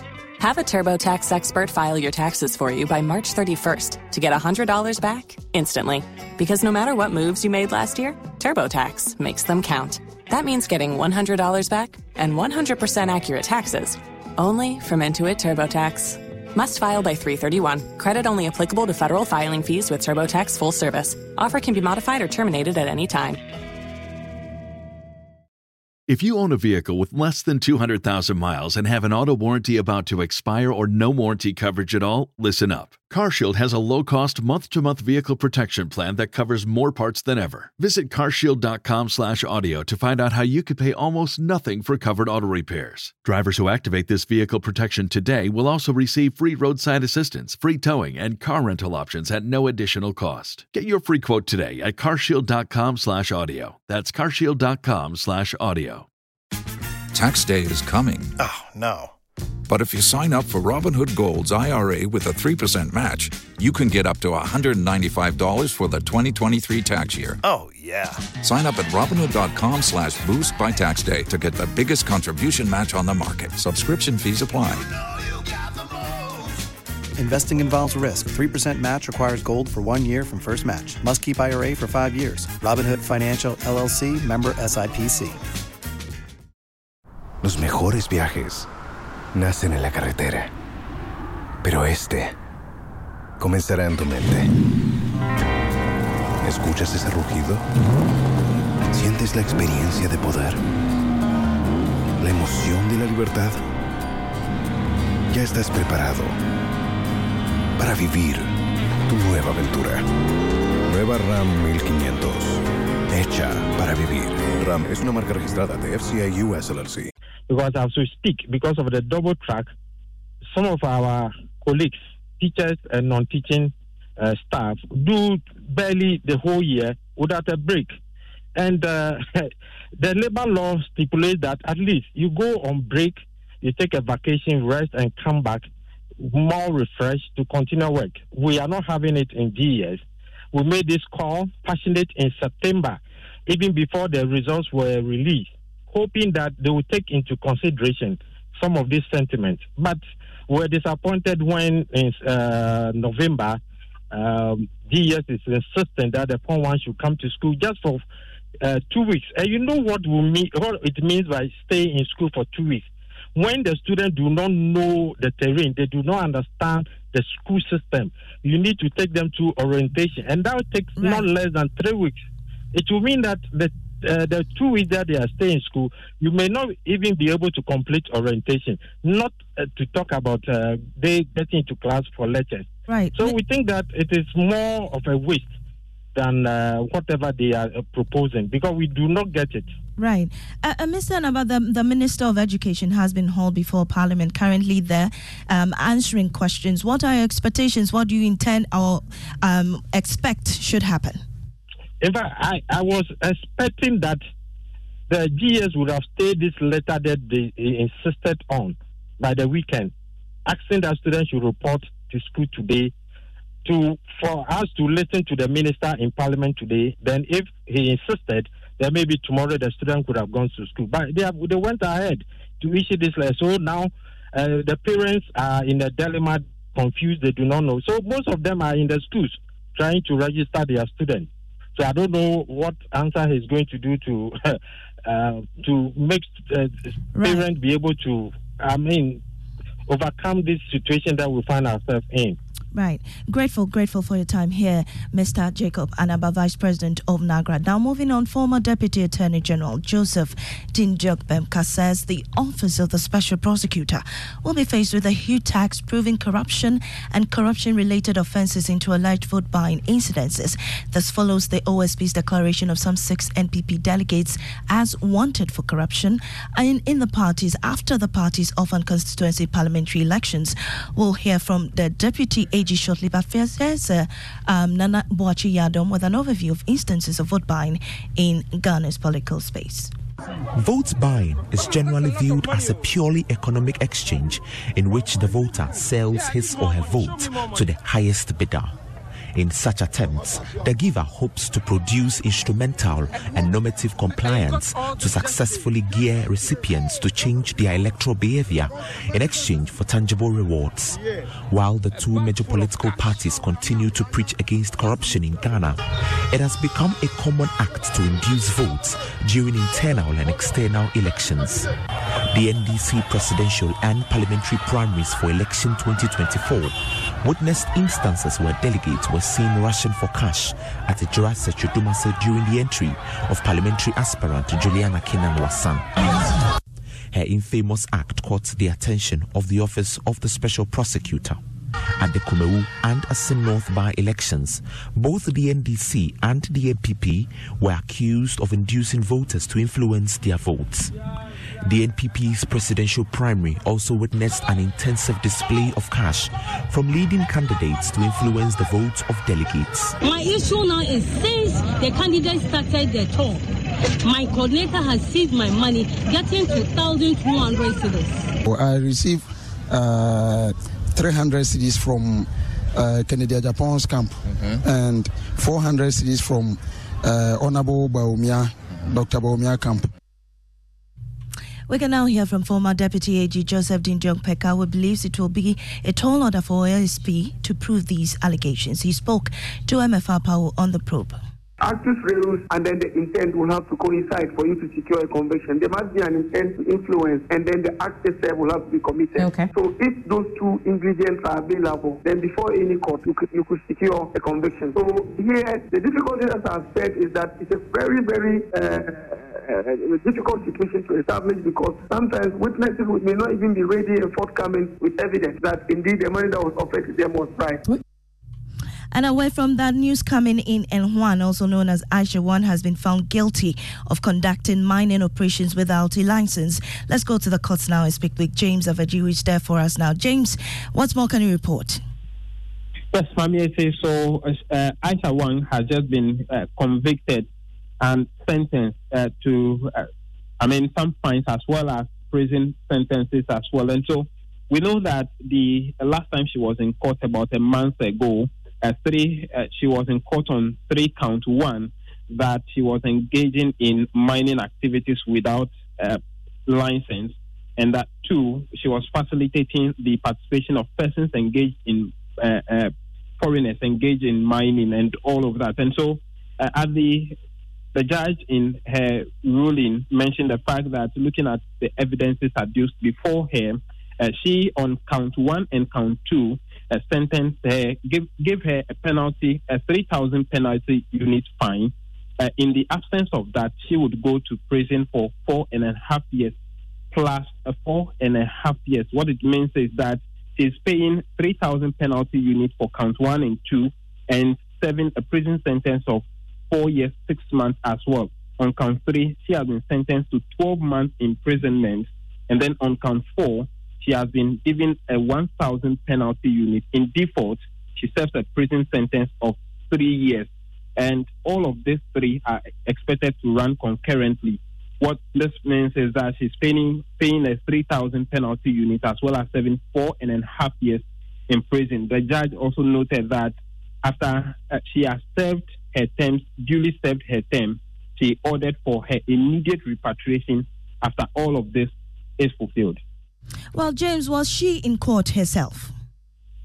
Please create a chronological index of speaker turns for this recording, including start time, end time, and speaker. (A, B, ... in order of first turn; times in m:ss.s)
0:00.4-0:23.4 A
0:26.1-0:56.0 B
0:57.1-0:58.3 C
0:58.4-0:59.1 D
0:59.7-1:07.4 C
1:07.4-1:08.2 D
1:08.4-1:14.8 C
1:17.2-1:25.4 E
1:27.4-1:28.7 D
1:29.3-1:30.5 D
1:31.6-1:32.3 D
1:33.4-1:34.5 D
1:36.4-1:37.6 D
1:38.9-1:40.6 D
1:42.2-1:43.6 D
1:45.3-1:46.4 D
1:47.8-1:48.5 D
1:49.1-1:50.0 D
1:50.9-1:57.1 D
1:57.5-1:59.7 F
2:00.5-2:08.0 F
2:08.6-2:15.7 F
2:16.2-2:20.0 F
2:20.5-2:33.6 F
2:34.1-2:38.0 F
2:38.6-2:52.2 F
2:52.7-3:05.5 F
3:02.9-3:03.4 G
3:06.1-3:09.7 F
3:10.0-3:21.2 G
3:22.0-3:24.2 F
3:25.1-3:29.9 F
3:30.4-3:32.9 F
3:33.6-3:59.2 F
3:57.2-3:57.4 G
3:59.9-4:02.4 F
4:02.7-4:39.9 G
4:40.5-4:48.7 H
4:49.3-5:05.8 H
5:06.3-5:11.7 H
5:12.3-5:25.9 H
5:27.1-5:31.4 H
5:32.0-5:40.9 H
5:41.6-5:49.9 H
5:50.0-5:53.4 I
5:54.0-5:58.3 I
5:58.4-6:09.9 J
6:11.7-6:21.2 G
6:21.6-6:47.7 K
6:48.9-7:01.8 G
7:02.9-7:07.3 L
7:07.8-7:09.8 L
7:10.4-7:37.2 L
7:37.7-7:56.4 L
7:56.9-8:42.8 L
8:43.5-8:45.7 G